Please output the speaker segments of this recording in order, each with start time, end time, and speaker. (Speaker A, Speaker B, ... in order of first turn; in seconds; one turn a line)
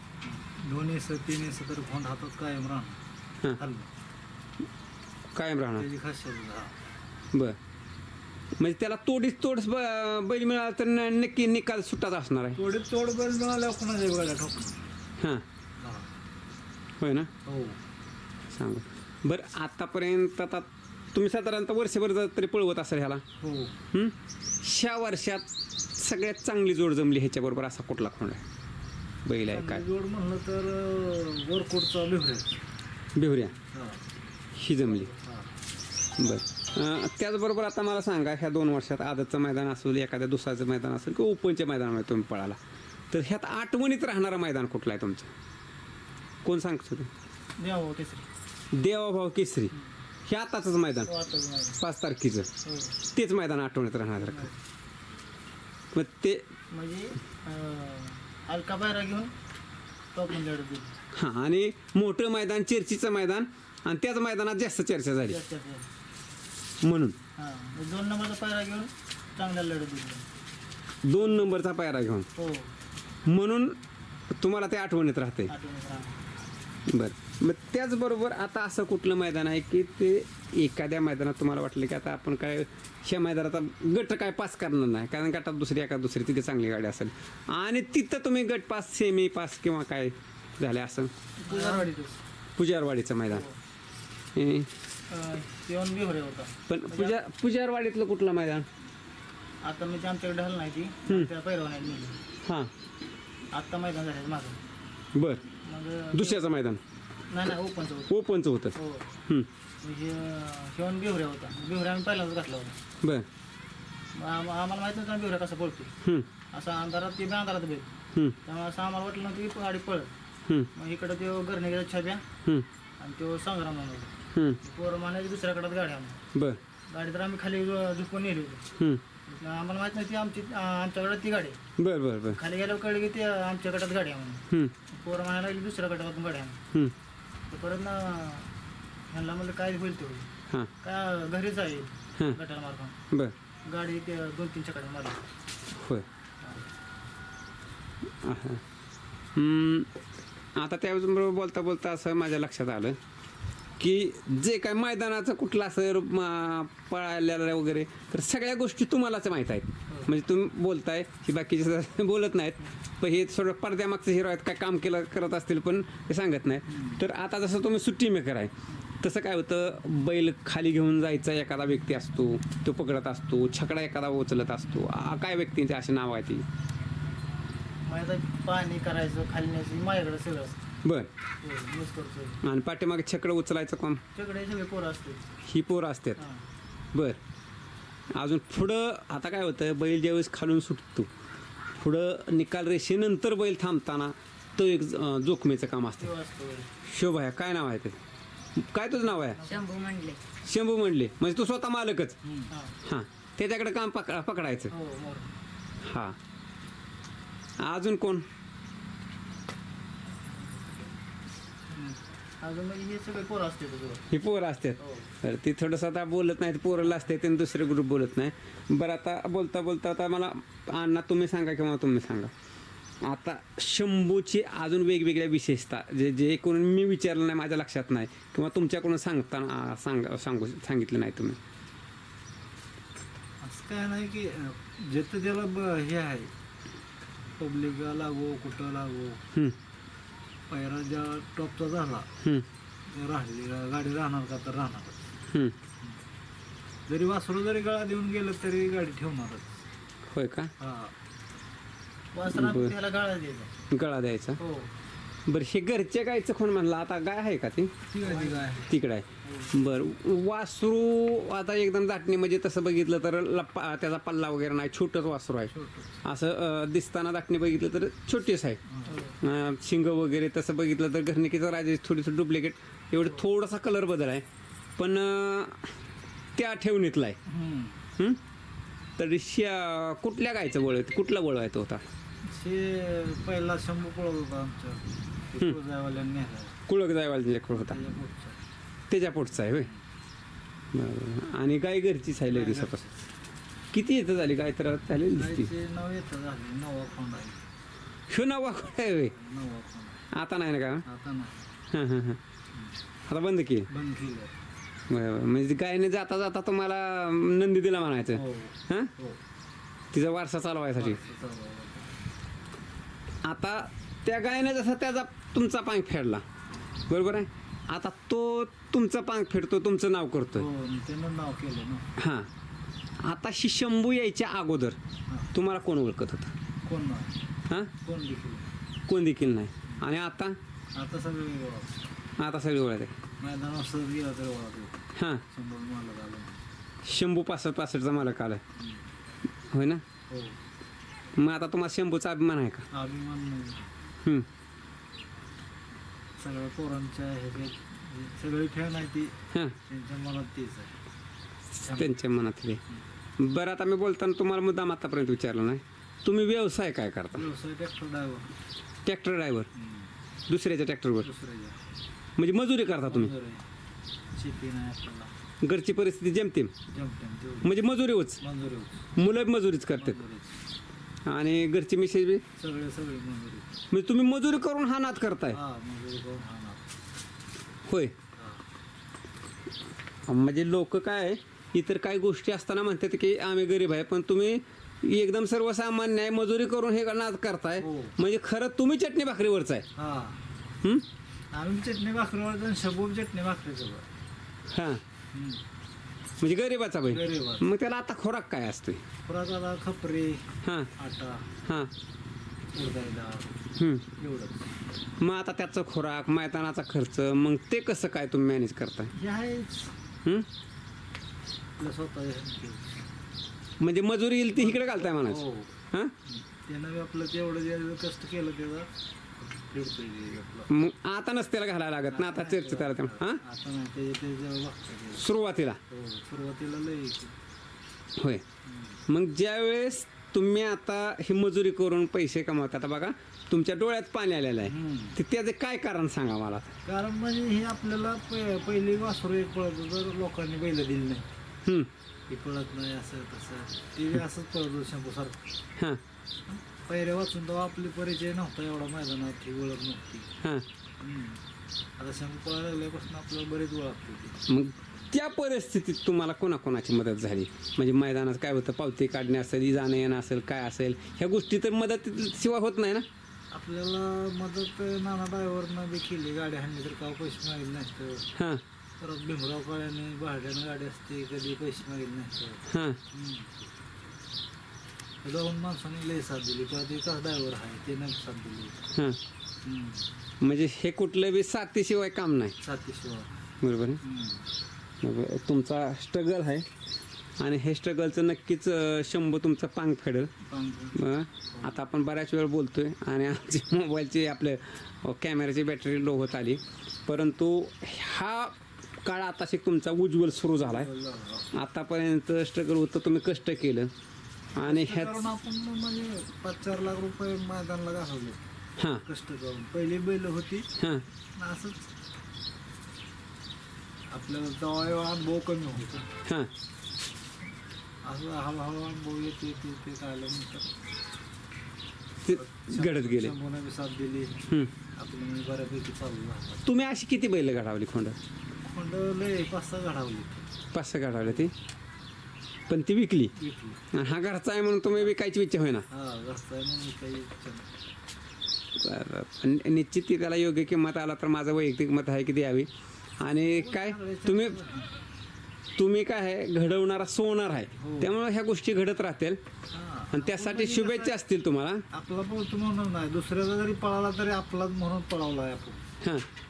Speaker A: 0.2-3.0
Speaker A: 3.5-3.9
Speaker B: 5.3-5.9
Speaker A: 5.8-6.7
Speaker B: 8.6-12.6
Speaker A: 12.6-14.8
Speaker B: 15.2-15.4
Speaker A: 15.8-16.1
Speaker B: 17.0-17.3
Speaker A: 17.4-17.8
Speaker B: 18.5-23.2
Speaker A: 23.4-23.8
Speaker B: 23.9-25.4
Speaker B: 26.0-28.4
Speaker B: 29.2-29.9
Speaker A: 29.5-32.6
Speaker B: 33.1-33.5
Speaker A: 33.6-34.0
Speaker B: 34.5-35.1
Speaker A: 34.9-35.5
Speaker B: 36.2-42.6
Speaker B: 43.1-45.3
Speaker B: 46.4-47.1
Speaker C: 47.6-48.2
Speaker B: 48.7-49.7
Speaker B: 50.2-51.1
Speaker C: 51.0-51.8
Speaker B: 51.8-52.5
Speaker C: 52.6-53.0
Speaker B: 53.1-54.5
Speaker C: 54.2-54.5
Speaker B: 55.9-56.4
Speaker C: 56.7-59.3
Speaker C: 60.1-60.9
Speaker B: 61.1-65.4
Speaker C: 65.3-65.9
Speaker B: 66.8-67.2
Speaker C: 67.4-70.2
Speaker B: 71.0-72.3
Speaker C: 71.2-71.6
Speaker C: 72.3-72.7
Speaker B: 73.2-73.8
Speaker B: 74.3-75.5
Speaker C: 75.5-76.2
Speaker B: 76.9-91.1
Speaker C: 91.4-92.1
Speaker A: 91.4-92.1
Speaker B: 92.6-93.4
Speaker C: 93.3-93.5
Speaker B: 94.3-94.7
Speaker C: 95.1-97.2
Speaker B: 96.7-98.7
Speaker C: 99.6-102.2
Speaker B: 102.4-102.7
Speaker C: 103.5-104.6
Speaker B: 105.1-105.4
Speaker C: 105.6-106.4
Speaker B: 106.1-106.8
Speaker C: 107.3-108.1
Speaker B: 108.1-108.7
Speaker C: 108.7-109.1
Speaker C: 109.8-112.7
Speaker C: 114.1-115.9
Speaker C: 116.5-117.9
Speaker C: 118.4-120.1
Speaker C: 120.7-122.2
Speaker C: 123.0-124.1
Speaker C: 124.6-126.2
Speaker B: 126.3-126.6
Speaker C: 126.9-128.6
Speaker C: 129.3-131.6
Speaker B: 131.8-132.4
Speaker C: 132.3-136.6
Speaker C: 137.5-138.5
Speaker C: 139.1-140.2
Speaker C: 140.8-142.9
Speaker C: 143.7-145.2
Speaker B: 145.7-146.1
Speaker B: 148.2-148.6
Speaker B: 149.3-149.9
Speaker B: 150.6-153.0
Speaker B: 153.8-176.4
Speaker A: 166.7-167.0
Speaker C: 177.8-180.6
Speaker B: 180.8-181.1
Speaker C: 181.4-182.4
Speaker B: 182.4-184.0
Speaker C: 184.1-185.2
Speaker B: 185.4-186.2
Speaker C: 186.2-186.4
Speaker B: 186.9-187.2
Speaker B: 188.2-191.1
Speaker B: 191.7-196.1
Speaker C: 196.0-196.7
Speaker B: 196.8-198.0
Speaker B: 198.6-199.4
Speaker C: 199.3-199.7
Speaker B: 200.4-202.2
Speaker A: 202.2-202.5
Speaker C: 202.5-202.8
Speaker B: 202.8-204.7
Speaker C: 204.7-205.3
Speaker B: 205.8-206.2
Speaker B: 207.6-208.2
Speaker A: 211.7-212.0
Speaker C: 212.4-214.0
Speaker B: 214.1-222.3
Speaker C: 214.8-215.1
Speaker B: 223.0-231.4
Speaker A: 233.4-236.3
Speaker A: 237.4-239.2
Speaker A: 240.5-242.1
Speaker A: 242.9-245.0
Speaker B: 245.3-245.6
Speaker A: 246.9-249.6
Speaker B: 250.1-250.5
Speaker A: 250.6-250.9
Speaker C: 252.1-253.5
Speaker B: 252.3-252.7
Speaker B: 253.7-254.4
Speaker C: 254.4-254.7
Speaker B: 255.3-257.7
Speaker A: 257.9-258.7
Speaker B: 258.6-265.5
Speaker C: 259.2-259.6
Speaker A: 265.5-266.0
Speaker B: 266.0-268.6
Speaker A: 268.7-269.0
Speaker C: 268.9-269.2
Speaker B: 269.2-274.2
Speaker B: 274.8-275.7
Speaker B: 276.4-277.2
Speaker A: 277.3-277.8
Speaker B: 279.0-281.8
Speaker A: 282.2-286.6
Speaker B: 286.7-287.8
Speaker A: 287.5-288.4
Speaker B: 288.9-289.7
Speaker B: 290.7-292.8
Speaker A: 292.2-293.0
Speaker B: 293.7-295.5
Speaker A: 295.1-297.4
Speaker B: 298.1-299.1
Speaker A: 299.1-300.0
Speaker B: 300.1-300.8
Speaker A: 300.9-301.5
Speaker B: 301.7-302.2
Speaker B: 303.1-303.7
Speaker A: 303.7-304.3
Speaker B: 304.9-308.9
Speaker A: 308.1-309.2
Speaker B: 309.9-311.0
Speaker A: 310.8-311.9
Speaker B: 313.2-316.2
Speaker B: 316.9-320.5
Speaker A: 320.3-321.9
Speaker B: 322.0-322.3
Speaker B: 323.0-324.8
Speaker B: 325.3-326.3
Speaker A: 326.6-327.2
Speaker A: 327.8-328.5
Speaker B: 328.9-330.4
Speaker A: 330.7-331.7
Speaker B: 332.2-332.9
Speaker A: 333.2-336.4
Speaker B: 334.9-335.2
Speaker B: 336.8-338.4
Speaker A: 338.6-338.9
Speaker B: 339.5-339.8
Speaker A: 340.1-340.4
Speaker B: 341.2-342.6
Speaker A: 342.7-343.7
Speaker A: 346.2-349.1
Speaker A: 349.7-350.7
Speaker A: 351.6-351.9
Speaker B: 351.7-352.6
Speaker B: 353.2-357.3
Speaker A: 357.1-358.3
Speaker B: 358.8-359.5
Speaker A: 359.5-359.9
Speaker B: 360.3-361.1
Speaker A: 361.0-361.6
Speaker B: 362.2-363.1
Speaker A: 362.9-363.4
Speaker A: 364.1-365.1
Speaker B: 365.4-366.5
Speaker A: 366.7-367.6
Speaker B: 367.4-368.2
Speaker A: 368.2-368.9
Speaker B: 368.9-370.0
Speaker A: 369.8-370.4
Speaker B: 371.1-372.2
Speaker A: 372.4-373.6
Speaker B: 373.7-375.4
Speaker A: 375.3-376.6
Speaker B: 377.7-377.9
Speaker A: 378.2-378.4
Speaker B: 380.1-389.6
Speaker A: 387.6-387.9
Speaker A: 389.8-390.2
Speaker A: 391.3-393.9
Speaker B: 394.5-394.8
Speaker A: 395.1-395.4
Speaker B: 396.2-398.8
Speaker A: 396.9-397.4
Speaker A: 399.0-401.3
Speaker B: 400.4-400.7
Speaker B: 401.4-401.7
Speaker A: 402.5-403.3
Speaker B: 403.6-403.8
Speaker A: 404.0-404.5
Speaker B: 405.0-408.9
Speaker A: 408.9-409.7
Speaker A: 411.6-412.8
Speaker B: 413.6-415.9
Speaker A: 414.4-415.5
Speaker A: 416.1-418.7
Speaker A: 419.2-420.5
Speaker B: 420.5-423.2
Speaker A: 421.9-425.0
Speaker B: 424.9-425.6
Speaker A: 425.7-427.1
Speaker B: 428.0-428.2
Speaker A: 428.4-428.8
Speaker B: 428.9-436.5
Speaker A: 434.4-435.0
Speaker A: 436.6-441.1
Speaker B: 441.4-441.7
Speaker A: 442.1-445.2
Speaker A: 446.3-450.1
Speaker A: 450.8-451.2
Speaker A: 451.8-454.2
Speaker B: 454.3-462.9
Speaker A: 463.3-468.1
Speaker B: 468.1-468.4
Speaker A: 468.8-473.3
Speaker B: 472.5-472.8
Speaker A: 475.0-478.6
Speaker B: 478.7-479.0
Speaker A: 479.4-479.9
Speaker B: 480.2-482.3
Speaker A: 482.4-483.1
Speaker B: 483.4-483.8
Speaker A: 483.8-484.2
Speaker B: 484.8-486.4
Speaker B: 487.2-490.1
Speaker A: 490.2-490.8
Speaker B: 490.8-500.7
Speaker A: 500.4-501.3
Speaker B: 501.3-503.7
Speaker B: 504.4-505.1
Speaker A: 504.4-508.2
Speaker B: 508.6-508.8
Speaker A: 508.8-510.5
Speaker B: 510.6-510.8
Speaker A: 511.1-511.6
Speaker A: 513.9-515.9
Speaker B: 516.0-516.3
Speaker A: 517.8-520.5
Speaker B: 522.0-523.1
Speaker A: 522.0-526.4
Speaker B: 526.4-528.0
Speaker A: 528.5-530.2
Speaker B: 530.5-531.3
Speaker A: 531.0-531.3
Speaker B: 532.5-533.1
Speaker A: 533.1-533.6
Speaker B: 533.7-535.6
Speaker A: 535.7-537.5
Speaker B: 538.5-542.5
Speaker B: 543.0-544.5
Speaker A: 543.2-544.7
Speaker B: 545.6-549.2
Speaker A: 547.6-547.9
Speaker A: 549.5-551.0
Speaker B: 549.9-551.6
Speaker A: 551.7-555.6
Speaker B: 555.8-556.1